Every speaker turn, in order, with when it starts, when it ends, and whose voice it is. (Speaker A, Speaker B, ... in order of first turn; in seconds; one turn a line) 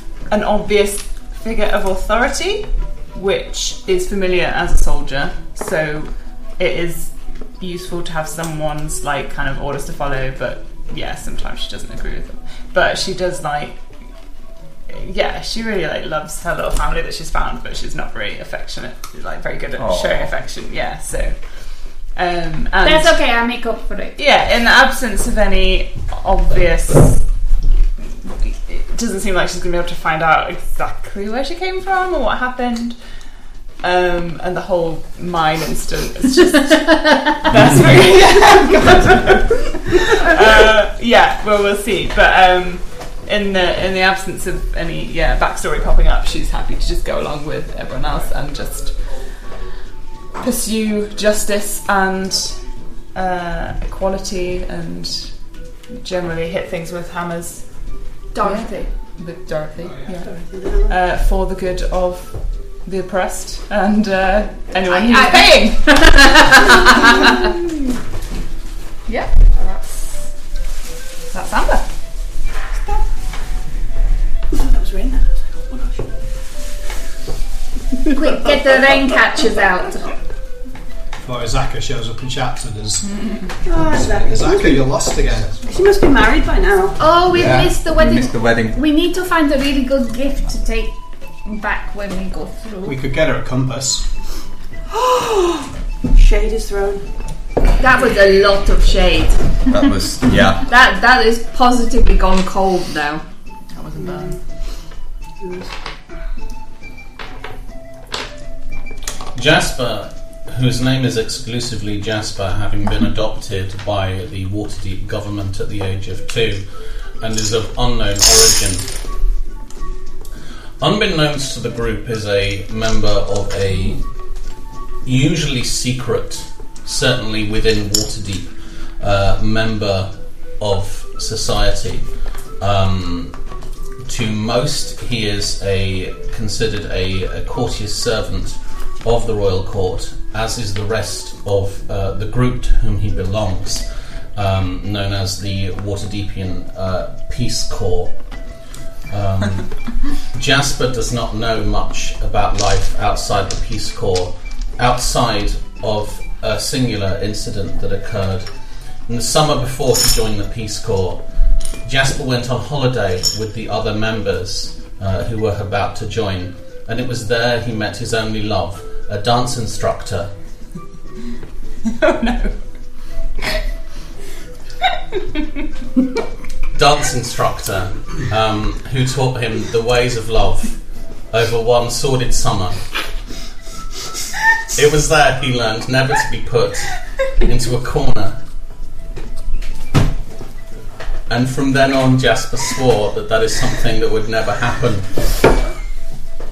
Speaker A: 0.3-13.8
Speaker A: 14.9-23.2
Speaker B: 19.8-20.3
Speaker C: 22.8-24.2
Speaker A: 24.1-27.3
Speaker A: 28.0-33.0
Speaker A: 33.8-49.6
Speaker A: 50.3-66.2
Speaker C: 58.3-58.9
Speaker D: 60.1-60.9
Speaker C: 64.9-67.4
Speaker A: 69.1-70.2
Speaker A: 71.3-71.9
Speaker D: 74.7-75.2
Speaker D: 75.7-76.0
Speaker C: 78.1-80.0
Speaker E: 81.2-83.1
Speaker D: 83.6-84.9
Speaker E: 83.8-85.6
Speaker D: 85.6-87.0
Speaker C: 87.0-92.9
Speaker B: 87.3-88.8
Speaker E: 92.8-94.0
Speaker D: 94.9-97.0
Speaker C: 97.8-99.6
Speaker B: 99.7-100.7
Speaker C: 100.6-103.2
Speaker A: 103.7-104.4
Speaker D: 104.0-104.3
Speaker D: 105.4-105.7
Speaker F: 109.3-118.9
Speaker F: 120.8-133.5
Speaker F: 134.0-148.5
Speaker F: 149.1-161.3
Speaker F: 161.8-170.3
Speaker A: 171.9-172.8
Speaker F: 176.7-183.0
Speaker F: 184.7-188.4
Speaker F: 191.3-195.3